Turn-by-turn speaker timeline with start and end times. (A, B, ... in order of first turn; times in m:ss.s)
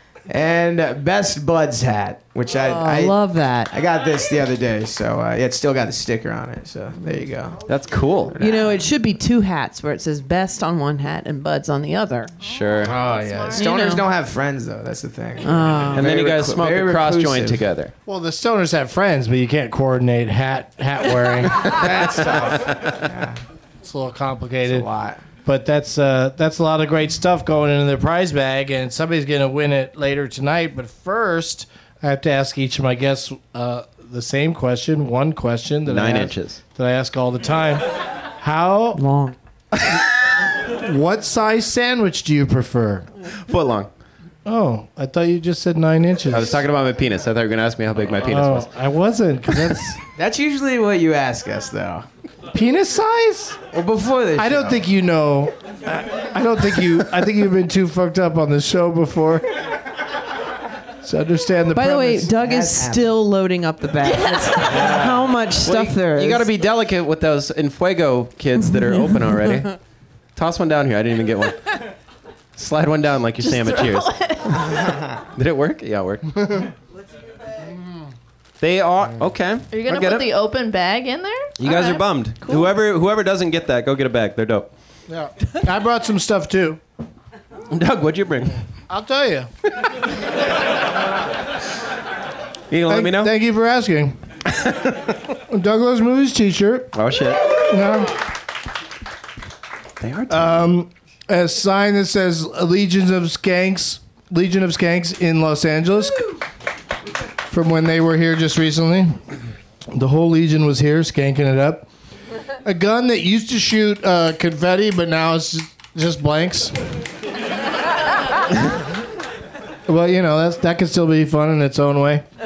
0:00.3-0:03.2 A
0:02.6-0:03.7 B
0:03.7-0:07.6 A
0:07.7-0:08.3 C
0:08.3-0:08.8 A
0:08.4-0:12.3 B
0:12.4-0:13.0 C
0:12.8-0:17.6 A
0:13.1-0:13.7 D
0:13.6-0:14.0 B
0:15.4-0:16.1 B
0:15.9-0:17.9 C
0:18.0-0:22.2 E
0:21.6-0:23.4 A
0:23.8-0:24.9 E
0:24.6-0:25.2 A
0:25.4-0:37.8 E
0:35.8-0:36.6 C
0:38.4-0:39.0 E
0:38.9-0:39.4 B
0:40.6-0:43.1 E
0:43.5-0:43.9 C
0:44.4-0:46.6 E
0:46.3-0:48.7 C
0:48.2-0:50.0 E
0:50.2-0:52.0 A
0:52.5-0:53.6 E
0:53.7-0:54.8 A
0:54.4-0:59.4 E
1:01.0-1:02.3 E
1:01.7-1:06.5 B
1:02.4-1:03.1 A
1:04.0-1:04.9 D
1:04.7-1:09.8 C
1:08.6-1:09.7 B
1:10.4-1:11.8 C
1:12.6-1:14.7 C
1:13.4-1:14.9 D
1:15.3-1:16.4 C
1:18.6-1:20.3 C
1:19.7-1:22.7 D
1:21.6-1:24.7 C
1:25.1-1:26.8 E
1:27.7-1:28.6 C
1:28.9-1:29.5 E
1:32.7-1:33.3 C
1:32.9-1:34.2 E
1:34.5-1:35.1 C
1:35.3-1:37.0 E
1:36.9-1:37.5 C
1:37.6-1:38.2 E
1:40.0-1:40.7 C
1:40.3-1:46.3 E
1:47.5-1:49.2 E
1:49.9-1:51.9 E
1:52.6-1:56.8 E
1:59.9-2:02.2 E